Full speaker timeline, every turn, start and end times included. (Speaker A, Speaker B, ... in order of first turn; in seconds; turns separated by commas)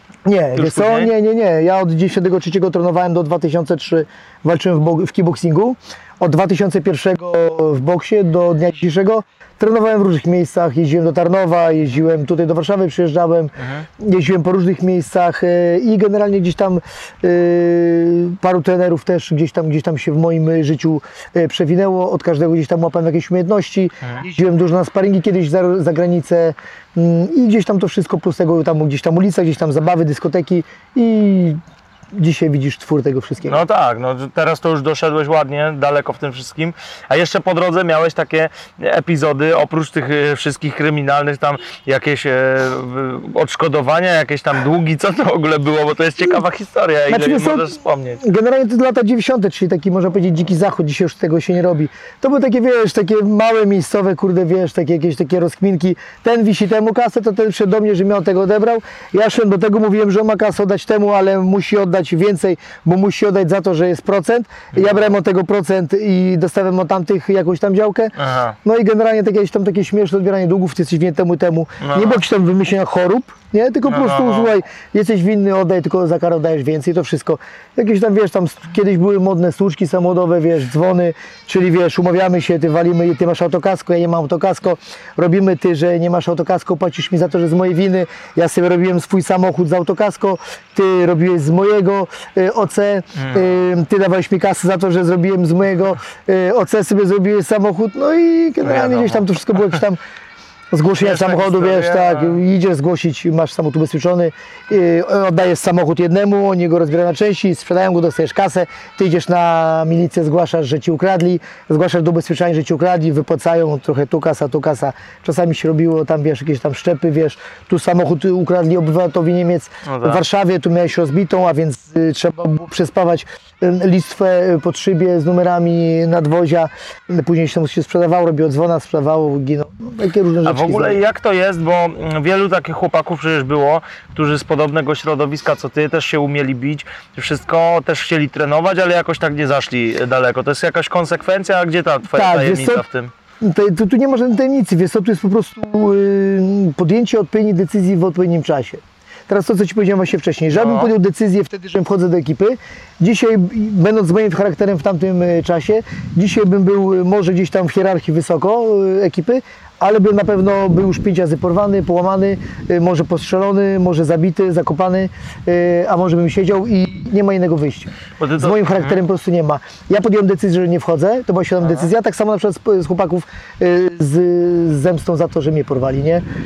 Speaker A: 0.2-31.6, Speaker B: 0.6-1.1, Speaker B: 13.6-13.8, Speaker A: 32.1-33.6, Speaker B: 33.5-48.2, Speaker A: 47.1-100.0, Speaker B: 64.7-65.1, Speaker B: 68.2-68.6, Speaker B: 71.8-72.2, Speaker B: 73.8-74.5, Speaker B: 93.2-93.5, Speaker B: 98.6-99.8, Speaker A: 100.7-131.0, Speaker B: 101.0-102.4, Speaker B: 119.8-120.2, Speaker B: 130.4-143.1, Speaker A: 142.1-142.8, Speaker A: 143.4-176.2, Speaker B: 150.5-150.9, Speaker B: 168.2-169.0, Speaker B: 171.6-171.9